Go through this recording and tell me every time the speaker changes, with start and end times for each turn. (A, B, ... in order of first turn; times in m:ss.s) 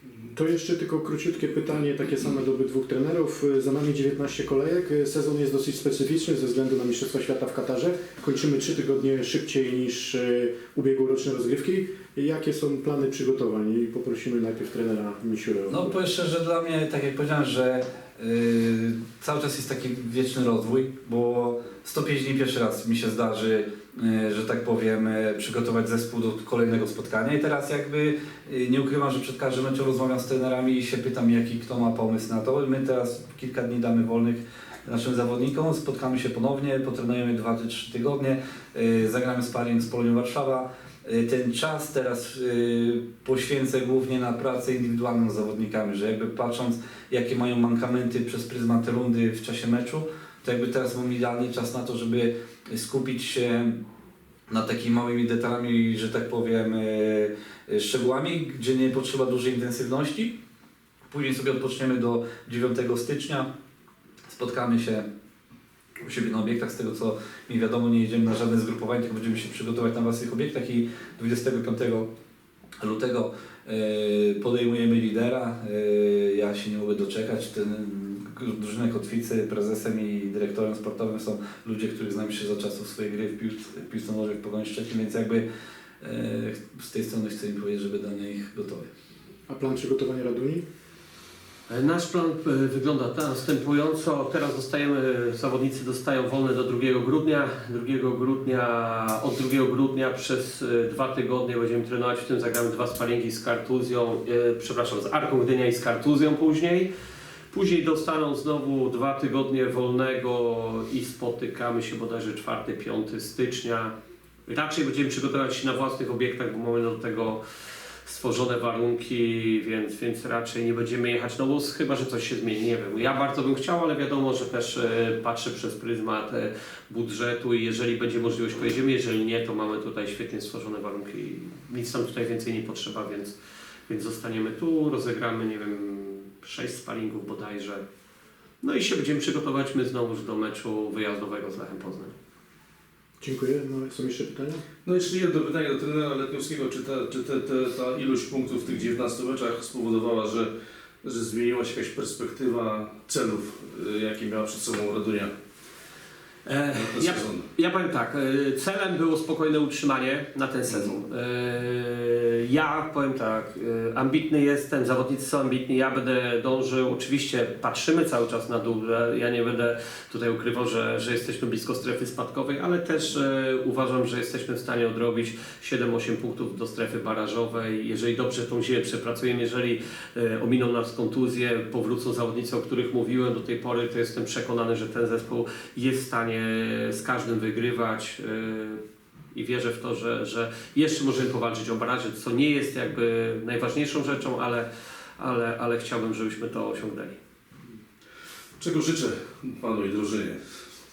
0:00.3-0:15.9 A
0:15.7-0:53.8 B
0:54.5-1:00.4 B
1:01.1-1:03.5 B
1:04.3-1:05.1 B
1:06.0-1:12.1 B
1:12.8-1:25.5 B
1:26.0-1:28.9 B
1:29.5-1:30.6 A
1:31.7-1:46.9 C
1:47.5-1:53.9 C
1:54.5-1:57.4 C
1:58.0-2:13.4 C
2:13.9-2:17.8 C
2:18.6-2:22.1 C
2:23.2-2:24.6 A
2:24.8-2:30.5 D
2:31.0-2:35.3 D
2:36.5-3:08.8 C
2:36.7-2:37.5 D
2:40.7-2:41.0 D
3:09.3-3:17.2 C
3:18.6-3:20.4 D